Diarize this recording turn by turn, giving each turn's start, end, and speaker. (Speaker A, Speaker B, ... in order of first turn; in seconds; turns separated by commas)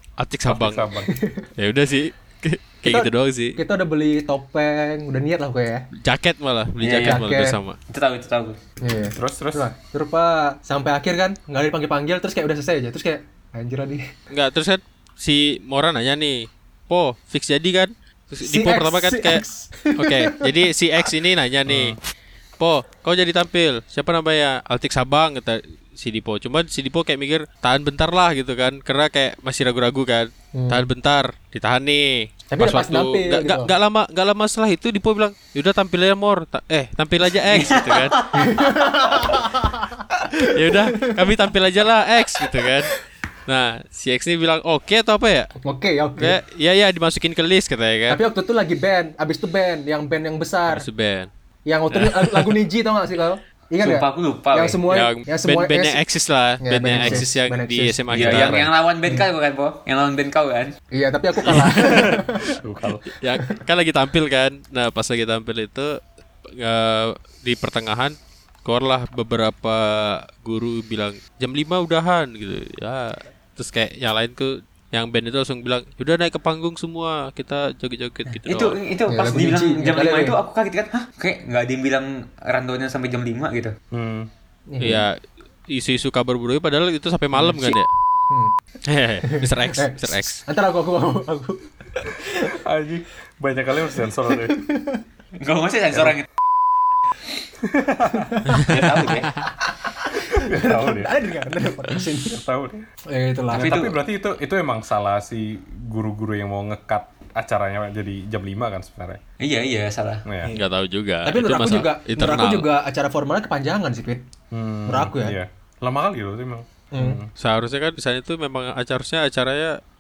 Speaker A: 0.2-0.9, Speaker B: 0.5-1.1, Speaker C: 1.1-1.5, Speaker A: 1.6-3.6, Speaker C: 2.9-5.9, Speaker A: 6.0-7.8, Speaker D: 6.8-7.2, Speaker C: 7.0-7.6, Speaker D: 7.9-8.6, Speaker C: 8.8-14.1, Speaker B: 9.1-9.7, Speaker A: 14.3-22.0, Speaker C: 18.4-20.5, Speaker B: 21.7-22.0, Speaker A: 22.6-38.3, Speaker C: 30.5-30.8, Speaker C: 32.5-33.7, Speaker D: 37.4-39.2, Speaker C: 38.3-41.3, Speaker A: 40.4-42.9, Speaker C: 42.4-42.9, Speaker A: 43.5-45.5, Speaker C: 45.6-46.4, Speaker A: 46.2-48.2, Speaker C: 48.1-50.9, Speaker A: 50.7-51.3, Speaker C: 51.7-56.0, Speaker A: 51.9-52.6, Speaker D: 53.8-54.8, Speaker A: 54.9-58.7, Speaker C: 56.6-58.1, Speaker B: 57.0-57.2, Speaker B: 58.1-58.7, Speaker D: 58.1-60.8, Speaker C: 60.9-62.6, Speaker A: 61.5-62.2, Speaker B: 61.8-63.1, Speaker A: 63.1-66.0, Speaker A: 66.5-78.8, Speaker D: 78.3-83.8, Speaker C: 79.1-80.4, Speaker B: 83.9-84.3, Speaker C: 84.7-85.1, Speaker A: 84.8-87.9, Speaker C: 87.4-87.8, Speaker C: 88.3-88.5, Speaker A: 88.9-90.4, Speaker C: 89.2-92.6, Speaker B: 92.5-94.6, Speaker C: 94.3-95.0, Speaker D: 95.4-96.3, Speaker B: 97.6-98.4, Speaker C: 98.1-98.6, Speaker D: 98.6-99.5, Speaker C: 99.6-102.4, Speaker B: 100.3-101.1, Speaker B: 102.3-102.8, Speaker C: 103.1-103.8, Speaker B: 103.5-109.2, Speaker D: 103.5-104.0, Speaker D: 109.4-110.3, Speaker B: 110.3-110.5, Speaker A: 110.5-112.7, Speaker C: 111.2-114.2, Speaker B: 114.5-117.3, Speaker C: 114.9-115.4, Speaker C: 116.9-117.2, Speaker A: 117.4-119.8